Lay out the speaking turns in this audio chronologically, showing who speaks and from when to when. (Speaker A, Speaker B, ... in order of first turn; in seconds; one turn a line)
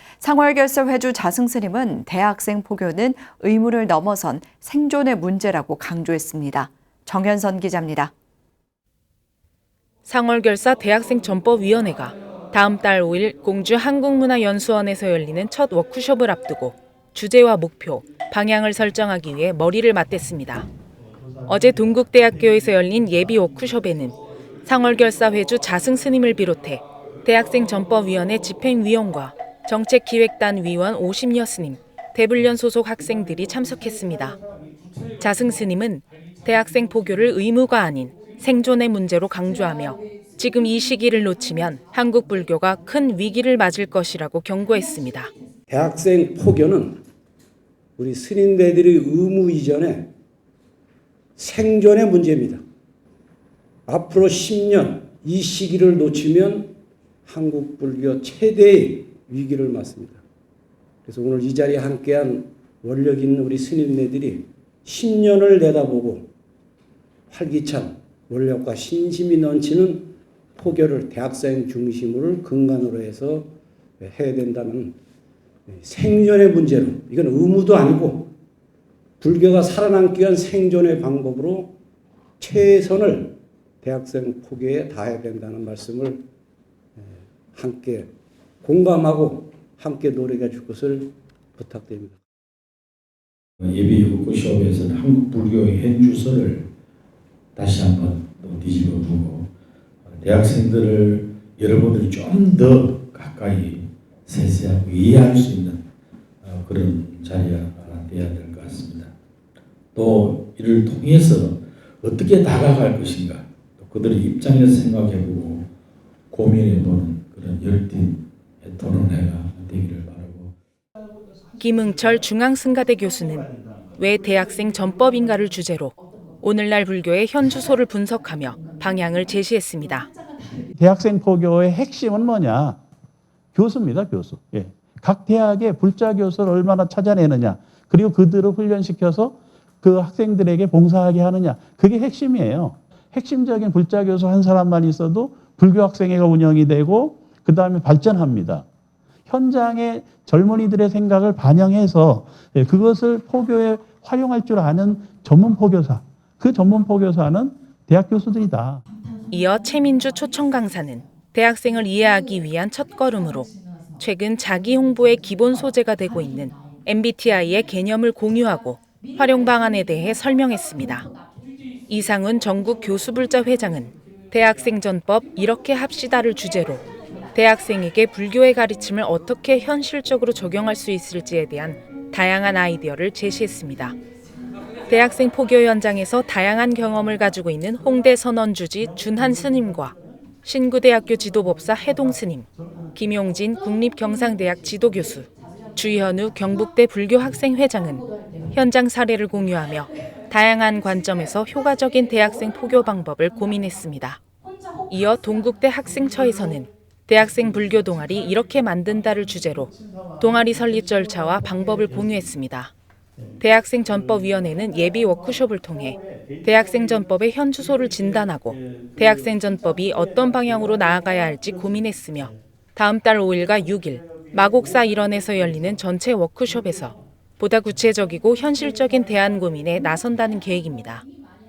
Speaker A: 0.2-8.1
Speaker B: 10.1-20.7
Speaker C: 21.1-23.4
Speaker B: 21.5-34.4
Speaker B: 35.2-45.3
Speaker D: 45.7-47.0
Speaker D: 48.0-50.1
Speaker D: 51.4-52.6
Speaker D: 53.9-56.8
Speaker D: 57.3-60.2
Speaker D: 61.1-66.3
Speaker D: 67.3-75.0
Speaker D: 75.7-78.3
Speaker D: 79.2-81.8
Speaker D: 82.4-86.2
Speaker D: 87.0-88.1
Speaker D: 88.6-92.2
Speaker E: 93.6-96.7
Speaker E: 97.6-99.5
Speaker E: 100.1-105.8
Speaker E: 106.4-109.1
Speaker E: 110.0-115.7
Speaker E: 116.3-120.5
Speaker C: 121.6-122.2
Speaker B: 121.6-130.1
Speaker C: 123.0-124.8
Speaker C: 130.8-132.8
Speaker C: 133.6-148.7
Speaker C: 149.3-158.8
Speaker B: 159.3-163.5
Speaker B: 164.0-171.1
Speaker B: 171.9-184.0
Speaker B: 184.9-204.2
Speaker C: 189.0-190.1
Speaker C: 192.6-192.9
Speaker B: 204.9-212.7
Speaker C: 207.6-212.3
Speaker C: 213.2-222.4
Speaker B: 213.4-231.0
Speaker C: 223.5-225.8
Speaker C: 226.7-226.9